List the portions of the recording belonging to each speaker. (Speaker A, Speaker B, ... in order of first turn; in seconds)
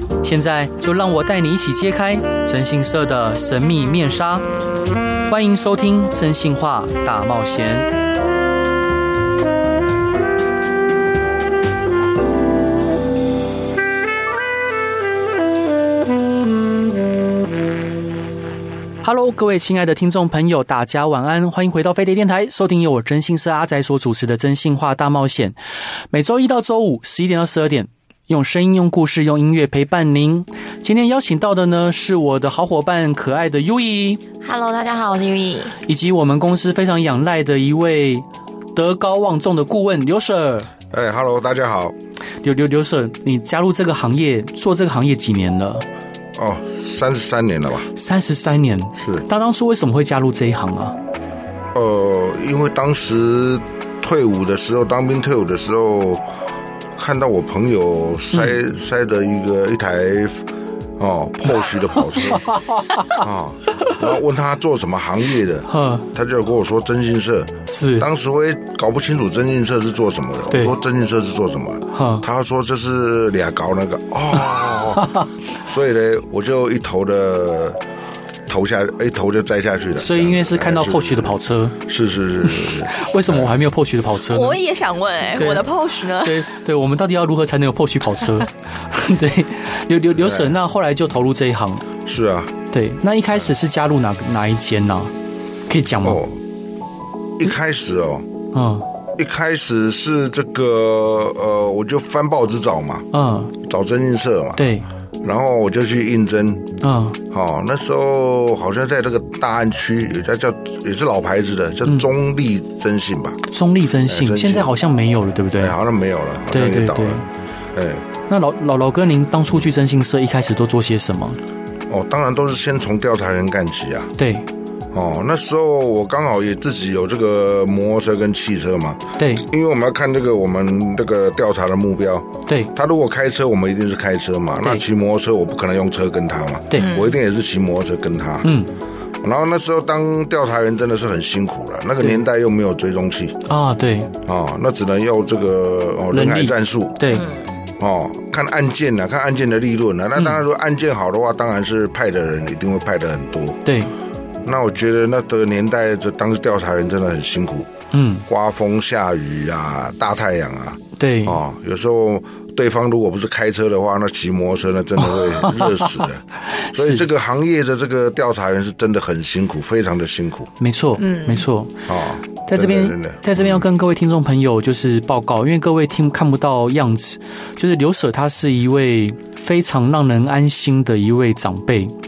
Speaker A: 0.2-4.5, 5.3-7.9, 19.0-25.6, 26.1-34.2, 35.8-40.7, 42.4-45.9, 47.9-51.0, 62.3-63.2, 65.7-66.1, 67.7-68.1, 70.5-70.8, 71.9-72.2, 75.0-75.3, 80.0-81.8, 82.4-84.6, 85.4-91.9, 92.7-95.1, 95.7-96.2, 98.5-98.9, 103.1-103.5, 104.6-104.9, 106.8-107.2, 113.5-115.8, 116.5-117.2, 118.3-121.4, 124.2-124.5, 129.2-129.4, 132.5-132.7, 138.4-138.7, 143.5-144.1, 146.1-147.3, 153.7-153.9, 157.9-158.2, 161.0-161.4, 165.0-167.1, 170.6-171.8, 172.5-181.9
Speaker B: 34.4-35.8, 84.3-86.5, 136.7-137.2, 147.1-147.5, 171.0-171.5
Speaker C: 40.9-42.0, 46.4-47.9, 49.0-49.3, 51.8-56.2, 57.0-60.5, 61.0-62.5, 63.1-77.8, 78.5-83.6, 90.2-90.5, 92.0-92.6, 96.0-96.4, 97.4-98.3, 99.2-103.1, 103.6-104.7, 105.2-106.7, 107.3-113.4, 114.0-114.7, 115.6-118.1, 121.9-124.1, 124.9-138.5, 139.2-143.4, 144.2-147.0, 147.8-153.6, 154.4-157.7, 158.3-166.2, 166.7-170.5, 171.9-173.7